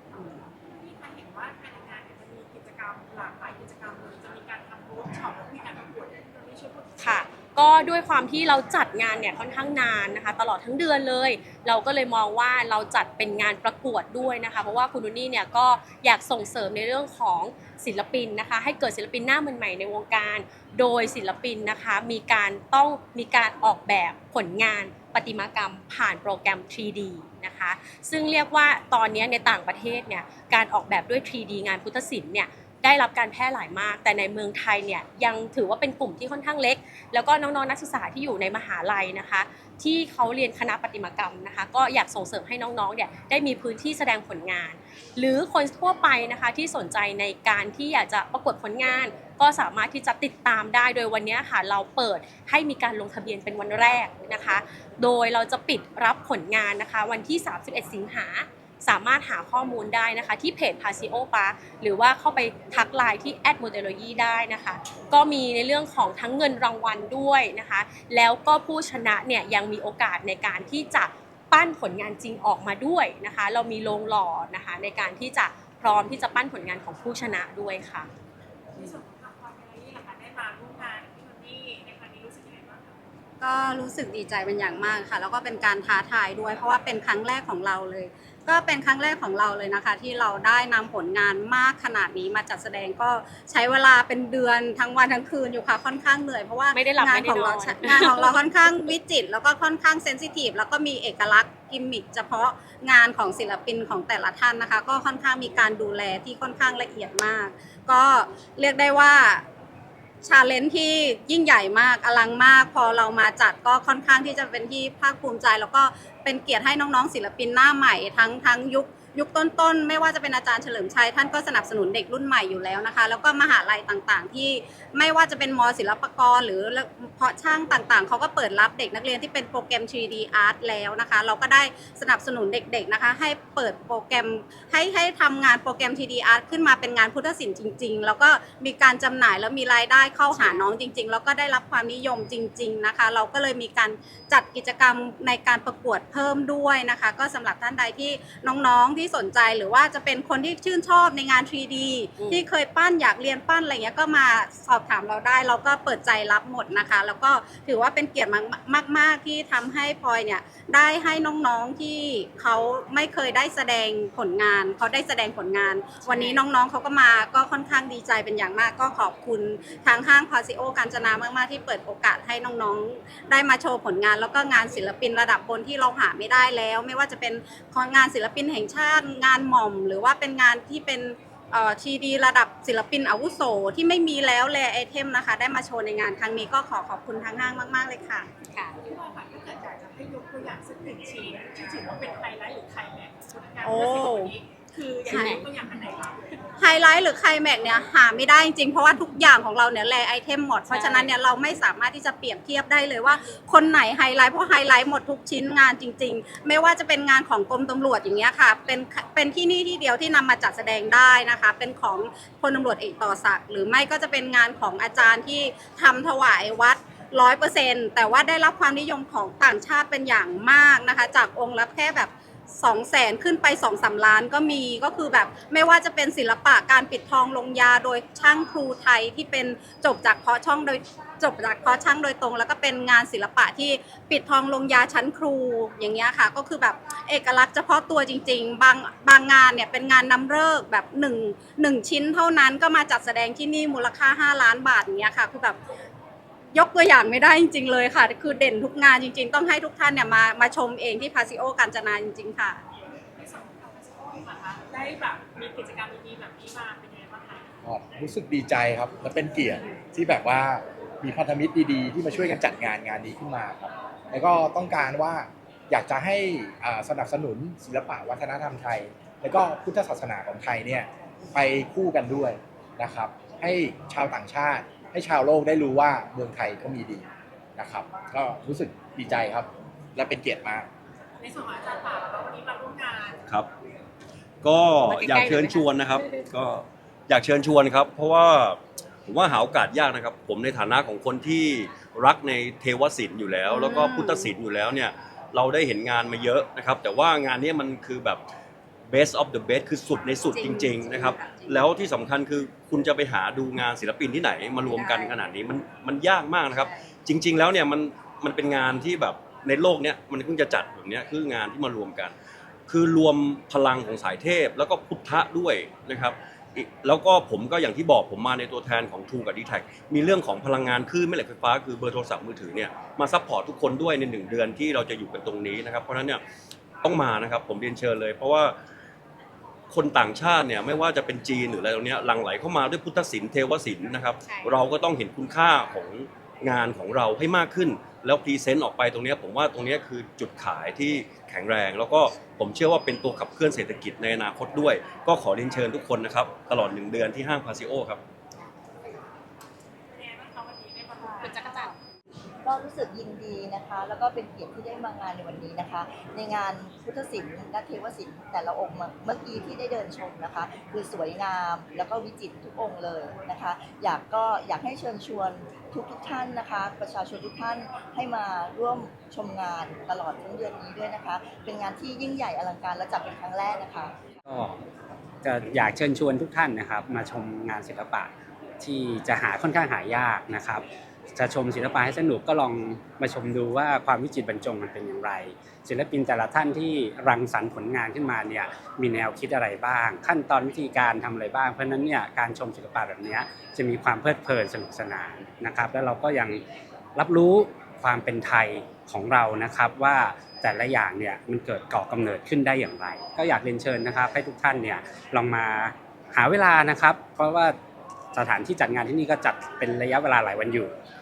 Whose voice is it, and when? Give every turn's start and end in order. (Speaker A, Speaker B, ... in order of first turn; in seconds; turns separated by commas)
Speaker A: 0.1-7.3, Speaker B: 7.0-78.1, Speaker A: 78.8-83.0, Speaker C: 83.4-109.5, Speaker B: 96.7-98.4, Speaker C: 110.2-188.3, Speaker B: 140.3-140.7, Speaker B: 152.2-152.4, Speaker B: 166.0-166.4, Speaker B: 188.5-188.8, Speaker A: 188.8-196.4, Speaker C: 193.6-194.3, Speaker C: 195.1-195.5, Speaker B: 195.1-195.5, Speaker C: 196.6-245.6, Speaker B: 200.7-201.1, Speaker C: 246.5-252.6, Speaker A: 253.2-257.5, Speaker D: 257.6-280.7, Speaker A: 281.2-283.2, Speaker E: 284.4-298.2, Speaker B: 284.8-286.3, Speaker C: 293.5-294.3, Speaker E: 298.9-312.1, Speaker B: 300.3-301.2, Speaker E: 312.7-326.2, Speaker E: 326.8-328.6, Speaker E: 329.7-348.0, Speaker B: 334.2-334.7, Speaker A: 349.9-351.7, Speaker F: 351.0-351.3, Speaker B: 351.2-351.7, Speaker F: 352.4-373.9, Speaker G: 374.3-374.6, Speaker G: 375.2-396.4, Speaker G: 397.0-407.6, Speaker G: 408.1-410.7